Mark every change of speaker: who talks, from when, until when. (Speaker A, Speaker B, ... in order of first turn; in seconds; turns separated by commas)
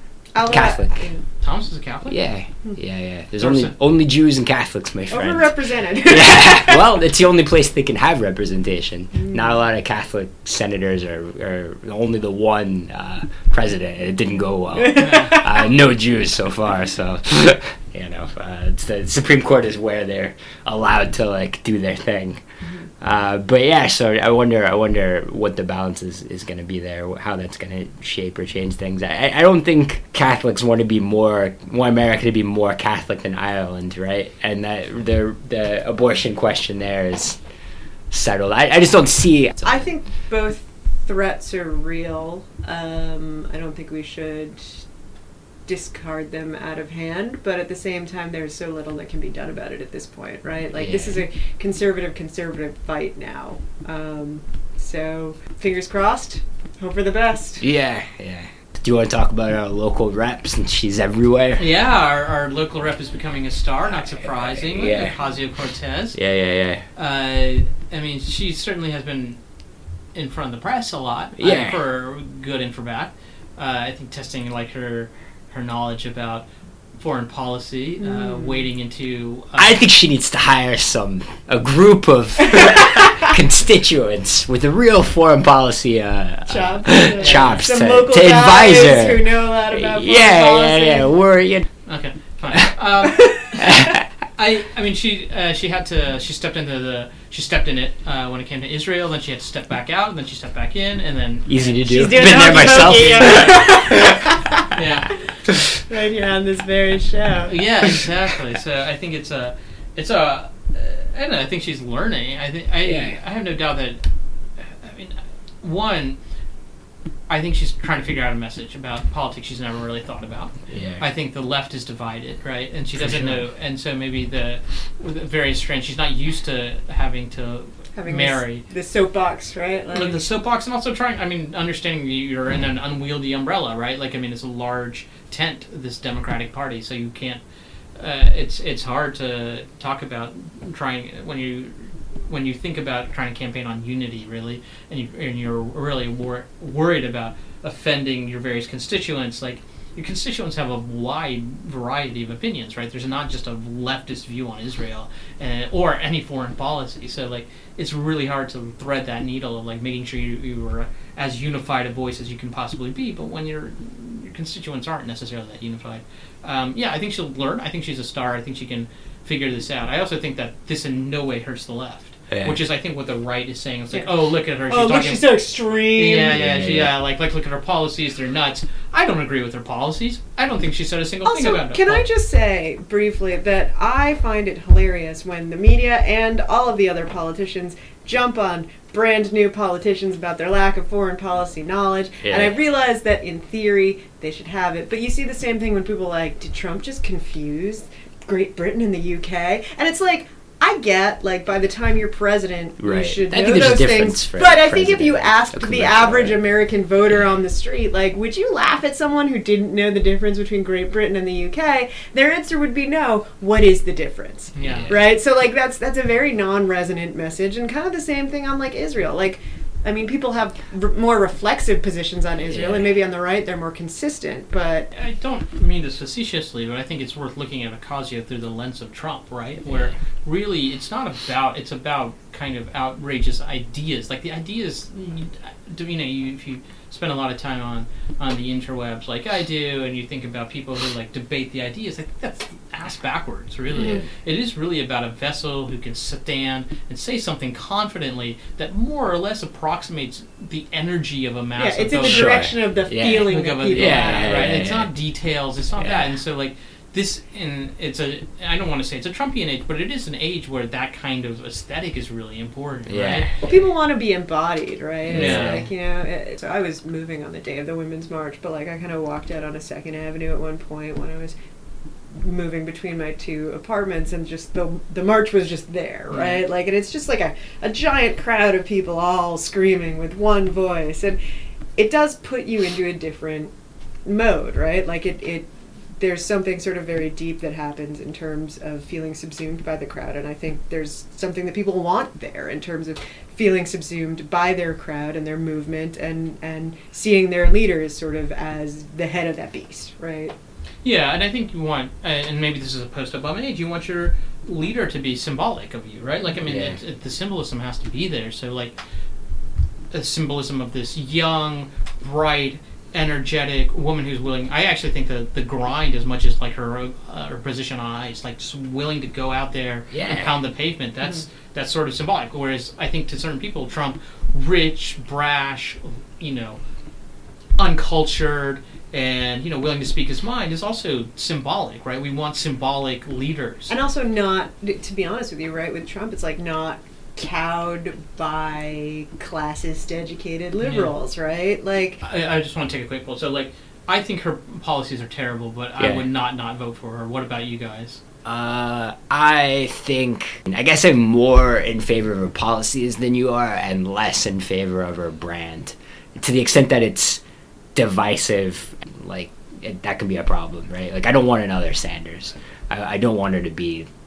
Speaker A: 0.3-1.2, Speaker B: 0.5-1.1, Speaker C: 1.4-2.2, Speaker B: 2.1-22.4, Speaker C: 3.4-3.7, Speaker A: 5.1-6.8, Speaker A: 9.1-9.5, Speaker A: 14.8-15.4, Speaker C: 14.9-15.4, Speaker B: 23.0-37.4, Speaker B: 38.1-39.9, Speaker A: 39.6-44.8, Speaker A: 45.7-57.6, Speaker B: 50.8-51.2, Speaker B: 57.6-61.6, Speaker C: 61.6-66.2, Speaker B: 64.4-65.1, Speaker B: 66.1-66.8, Speaker C: 66.9-69.4, Speaker C: 70.1-76.5, Speaker B: 71.4-71.8, Speaker C: 77.0-79.8, Speaker A: 78.0-78.7, Speaker B: 79.6-91.7, Speaker A: 82.5-83.0, Speaker A: 86.5-91.1, Speaker C: 87.2-87.6, Speaker C: 91.8-103.5, Speaker B: 93.5-94.0, Speaker B: 101.5-104.2, Speaker A: 101.9-104.7, Speaker C: 104.7-105.1, Speaker A: 105.8-107.7, Speaker C: 107.5-114.0, Speaker B: 112.8-113.2, Speaker C: 114.6-116.2, Speaker C: 117.3-128.6, Speaker B: 120.7-121.0, Speaker B: 123.0-123.4, Speaker A: 127.9-130.2, Speaker C: 129.9-137.4, Speaker C: 137.9-175.4, Speaker B: 172.3-172.6, Speaker A: 174.7-176.6, Speaker C: 175.9-182.0, Speaker B: 176.3-176.9, Speaker A: 181.2-224.9, Speaker B: 192.2-192.5, Speaker B: 202.8-206.3, Speaker C: 214.6-215.0, Speaker B: 214.6-214.9, Speaker B: 222.5-222.9, Speaker C: 224.9-252.4, Speaker A: 243.8-244.0, Speaker B: 243.8-244.1, Speaker A: 251.6-254.6, Speaker B: 252.0-254.9, Speaker C: 253.2-263.3, Speaker B: 262.9-263.4, Speaker A: 263.4-271.3, Speaker B: 265.1-265.7, Speaker C: 265.1-265.6, Speaker A: 272.1-281.2, Speaker C: 276.1-276.4, Speaker A: 281.8-283.5, Speaker A: 284.0-300.3, Speaker C: 300.8-308.8, Speaker B: 306.4-306.8, Speaker C: 309.9-326.6, Speaker B: 319.9-320.3, Speaker C: 327.6-333.7, Speaker A: 333.7-342.0, Speaker C: 340.6-340.9, Speaker C: 342.0-348.0, Speaker B: 345.8-346.0, Speaker B: 348.2-357.2, Speaker B: 357.7-363.9